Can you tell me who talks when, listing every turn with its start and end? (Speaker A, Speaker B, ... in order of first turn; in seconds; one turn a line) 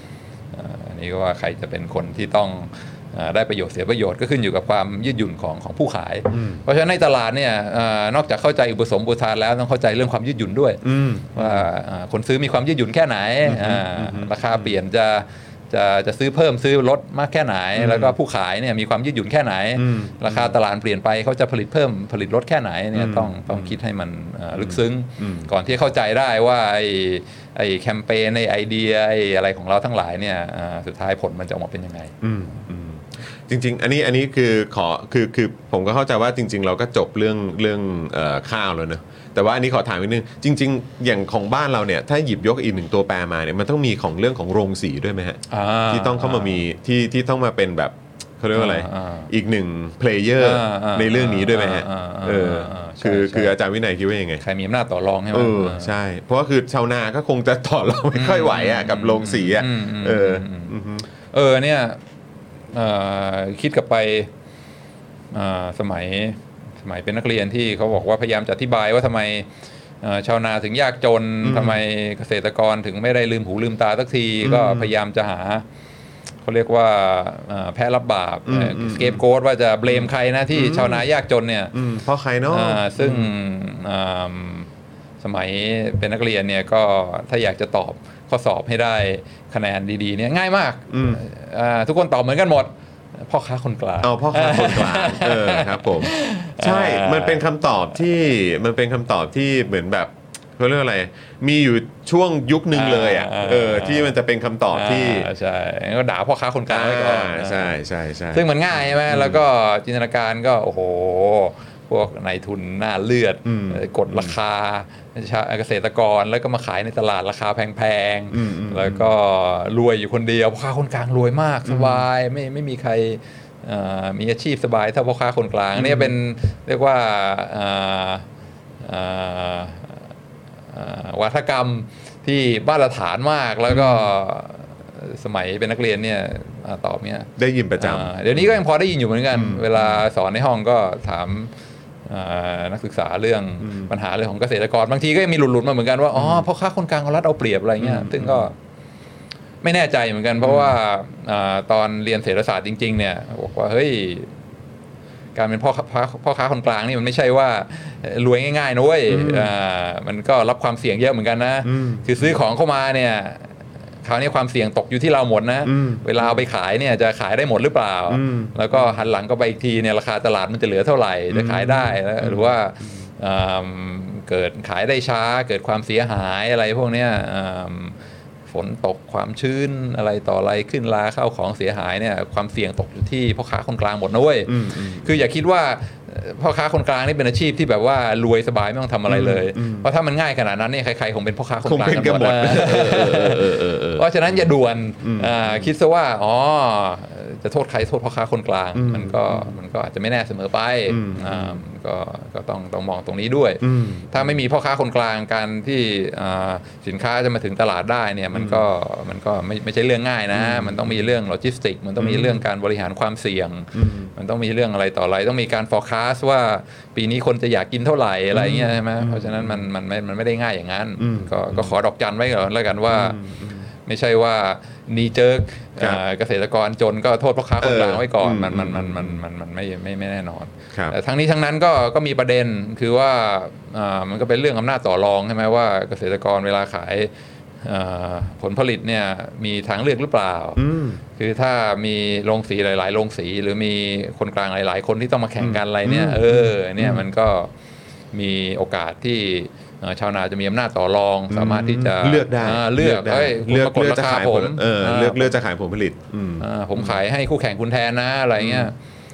Speaker A: 0.5-32.1
Speaker B: 6.3-6.6
Speaker B: 10.8-11.7
Speaker B: 13.5-14.8
Speaker B: 17.8-18.1
Speaker B: 19.8-20.6
Speaker B: 22.9-23.8
Speaker B: 24.6-25.5
Speaker B: 32.2-54.4
Speaker A: 45.5-46.6
Speaker A: 48.5-49.3
Speaker A: 50.4-53.5
Speaker A: 54.4-55.9
Speaker B: 55.3-61.1
Speaker A: 58.1-60.7
Speaker A: 61.3-62.0
Speaker A: 62.7-64.3
Speaker A: 65.3-69.5
Speaker A: 70.0-75.7
Speaker B: 71.4-71.8
Speaker B: 74.4-74.9
Speaker A: 76.4-81.7
Speaker B: 78.5-79.2
Speaker B: 79.9-81.1
Speaker B: 81.7-83.3
Speaker A: 82.5-84.7
Speaker A: 85.2-97.4
Speaker B: 90.9-91.2
Speaker B: 94.0-105.3
Speaker A: 102.7-104.2
Speaker A: 104.7-107.8
Speaker B: 106.7-109.4
Speaker A: 108.3-128.3
Speaker B: 113.5-114.3
Speaker B: 118.3-119.1
Speaker B: 121.7-122.0
Speaker B: 125.8-126.2
Speaker A: 128.8-130.0
Speaker A: 130.7-141.5
Speaker B: 133.7-134.1
Speaker B: 137.4-138.6
Speaker B: 139.3-140.0
Speaker A: 142.1-148.6
Speaker B: 143.6-143.9
Speaker B: 146.2-146.5
Speaker B: 147.8-148.5
Speaker A: 149.6-154.3
Speaker B: 150.4-150.8
Speaker A: 155.3-178.0
Speaker B: 159.1-159.5
Speaker B: 161.7-162.4
Speaker B: 165.7-166.5
Speaker B: 168.1-169.0
Speaker B: 171.3-173.0
Speaker A: 178.5-223.2
Speaker B: 184.5-185.2
Speaker B: 189.1-189.9
Speaker B: 191.6-195.7
Speaker B: 198.8-199.6
Speaker B: 200.9-201.6
Speaker B: 203.6-204.4
Speaker B: 208.3-208.6
Speaker B: 210.3-211.0
Speaker B: 212.0-212.4
Speaker B: 213.7-214.1
Speaker B: 218.3-219.7
Speaker B: 221.0-221.7
Speaker B: 222.9-223.7
Speaker A: 223.9-237.1
Speaker B: 227.6-229.2
Speaker A: 237.6-240.6
Speaker B: 240.6-241.0
Speaker A: 241.2-247.5
Speaker B: 245.4-247.0
Speaker A: 248.1-255.3
Speaker B: 251.3-257.0
Speaker A: 256.4-258.8
Speaker B: 258.4-258.7